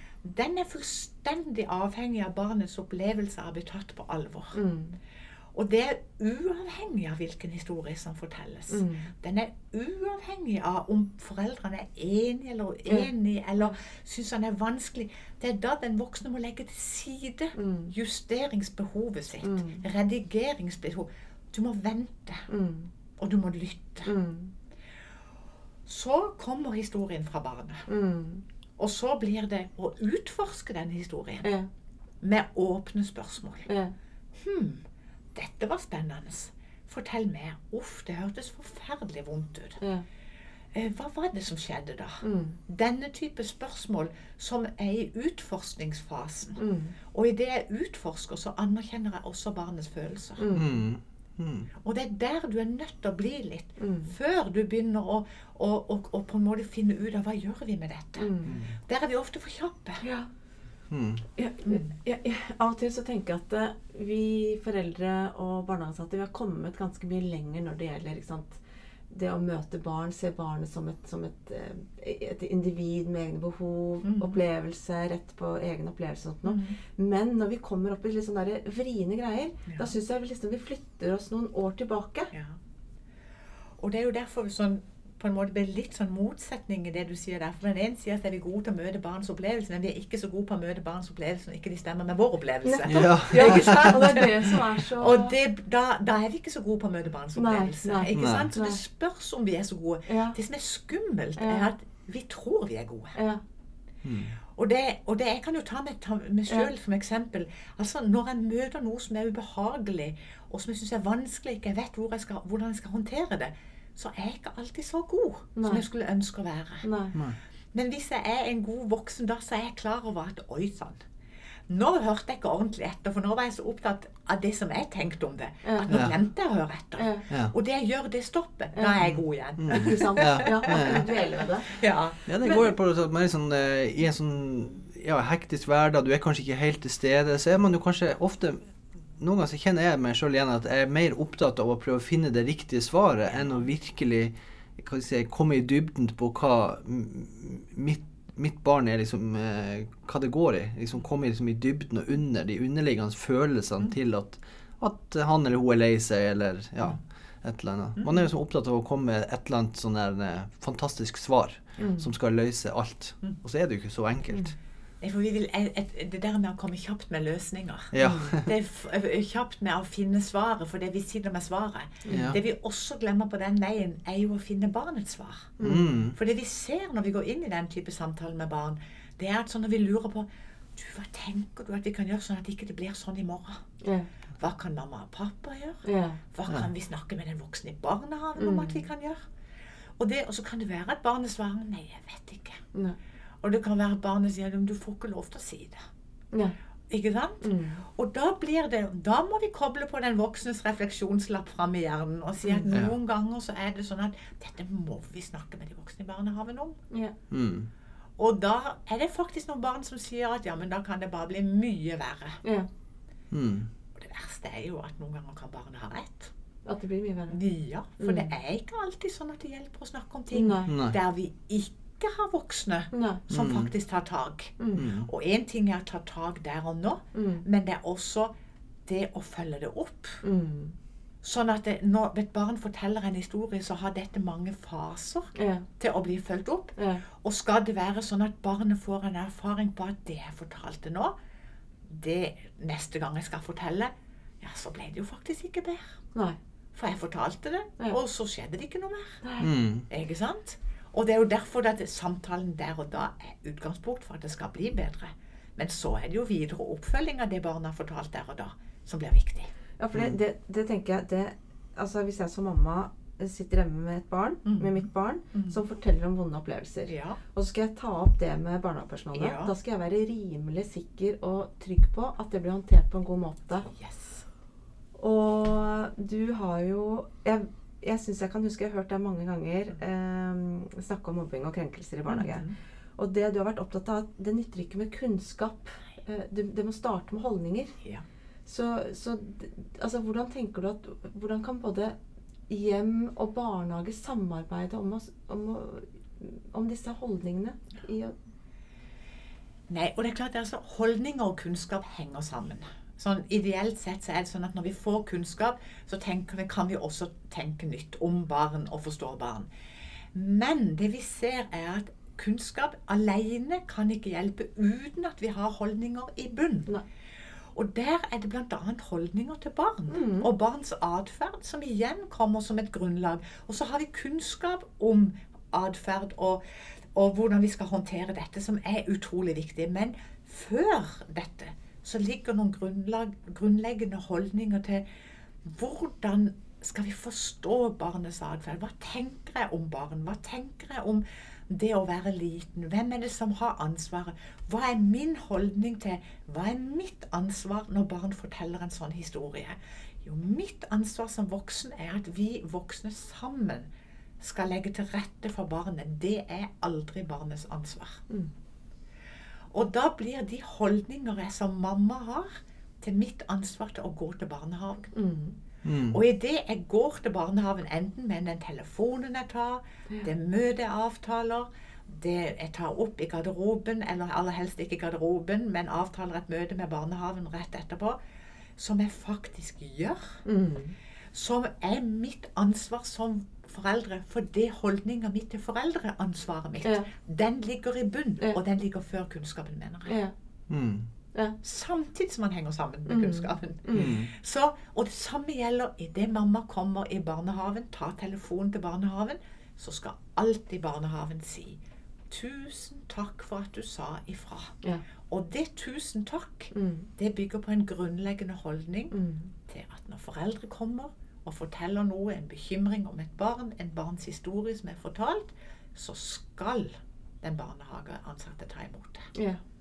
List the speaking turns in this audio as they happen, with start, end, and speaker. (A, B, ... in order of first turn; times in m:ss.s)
0:00.2-0:04.6 A
0:04.5-0:05.0 B
0:05.5-0:22.5 A
0:08.7-0:09.1 B
0:17.6-0:17.9 B
0:19.4-0:19.8 B
0:22.5-0:22.9 B
0:23.2-0:24.1 A
0:24.0-0:24.5 B
0:25.9-0:27.9 A
0:27.9-0:28.4 B
0:28.8-0:31.5 A
0:31.4-0:31.7 B
0:32.2-0:33.7 A
0:33.7-0:33.9 B
0:34.4-0:39.8 A
0:40.7-0:50.6 A
0:42.2-0:42.6 B
0:46.6-0:47.0 B
0:50.4-0:50.8 B
0:50.5-0:51.7 C
0:51.8-1:00.0 A
0:53.8-0:54.1 B
0:58.2-0:58.6 B
1:00.0-1:00.3 B
1:00.9-1:01.2 C
1:01.4-1:22.3 B
1:14.0-1:14.4 A
1:16.4-1:16.8 A
1:19.7-1:19.9 A
1:22.3-1:22.6 A
1:23.8-1:43.2 A
1:32.6-1:35.4 B
1:32.9-1:34.0 C
1:37.4-1:38.8 B
1:38.1-1:38.5 C
1:40.1-1:40.4 B
1:41.4-1:41.7 B
1:43.2-1:43.4 B
1:44.0-1:44.4 C
1:44.6-1:57.2 A
1:55.6-1:55.8 B
1:56.8-1:57.2 B
1:57.7-2:01.0 A
2:01.7-2:12.5 A
2:05.6-2:05.9 B
2:05.9-2:06.2 C
2:07.0-2:07.2 B
2:09.0-2:11.1 C
2:09.7-2:11.8 B
2:12.3-2:18.6 C
2:19.2-2:44.6 C
2:38.0-2:38.2 A
2:41.8-2:42.1 B
2:45.0-2:55.6 A
2:47.9-2:48.5 C
2:48.0-2:48.4 B
2:52.1-2:52.3 B
2:52.1-2:52.4 C
2:55.6-2:56.0 B
2:55.6-2:56.2 C
2:56.1-3:03.6 A
3:03.8-3:04.1 B
3:04.4-3:09.2 A
3:05.8-3:06.2 B
3:08.4-3:08.8 B
3:10.0-3:12.6 A
3:13.4-3:15.8 A
3:16.9-3:26.8 A
3:17.4-3:17.8 B
3:22.7-3:23.0 C
3:27.3-3:27.7 C
3:28.2-3:32.4 A
3:33.3-3:33.7 C
3:34.0-3:36.3 A
3:36.7-3:37.4 B
3:37.3-3:48.3 A
3:38.0-3:38.3 B
3:40.3-3:40.7 B
3:40.7-3:41.0 C
3:42.9-3:43.2 B
3:43.3-3:43.7 C
3:44.8-3:45.1 C
3:47.1-3:47.4 B
3:48.9-3:50.2 A
3:50.2-3:50.8 B
3:51.2-4:01.2 A
3:55.4-3:55.7 B
3:56.8-3:57.0 B
4:01.9-4:06.0 A
4:06.7-4:09.3 A
4:09.2-4:09.5 B
4:09.4-4:09.9 C
4:09.9-4:19.5 A
4:19.8-4:33.7 B
4:24.4-4:25.6 A
4:26.9-4:27.2 A
4:29.1-4:29.5 A
4:33.7-4:34.2 A
4:35.0-4:42.4 B
4:42.1-4:42.6 A
4:43.0-4:47.8 B
4:48.5-4:52.0 B
4:52.5-4:58.2 B
4:59.7-5:09.5 A
5:10.1-5:16.7 A
5:17.6-5:34.9 A
5:19.9-5:20.3 B
5:35.4-5:53.7 A
5:54.2-5:58.0 A
5:59.5-6:04.9 A
6:04.9-6:05.4 B
6:05.6-6:06.0 C
6:05.9-6:18.0 A
6:18.6-6:20.2 A
6:20.2-6:20.7 B
6:21.1-6:30.0 A
6:29.9-6:30.1 B
6:30.5-6:30.9 C
6:31.4-6:41.6 A
6:32.9-6:34.0 B
6:33.7-6:34.1 C
6:42.1-6:44.6 A
6:45.1-6:49.0 A
6:46.5-6:46.9 B
6:48.9-6:49.3 B
6:49.5-6:59.1 A
6:59.2-6:59.4 B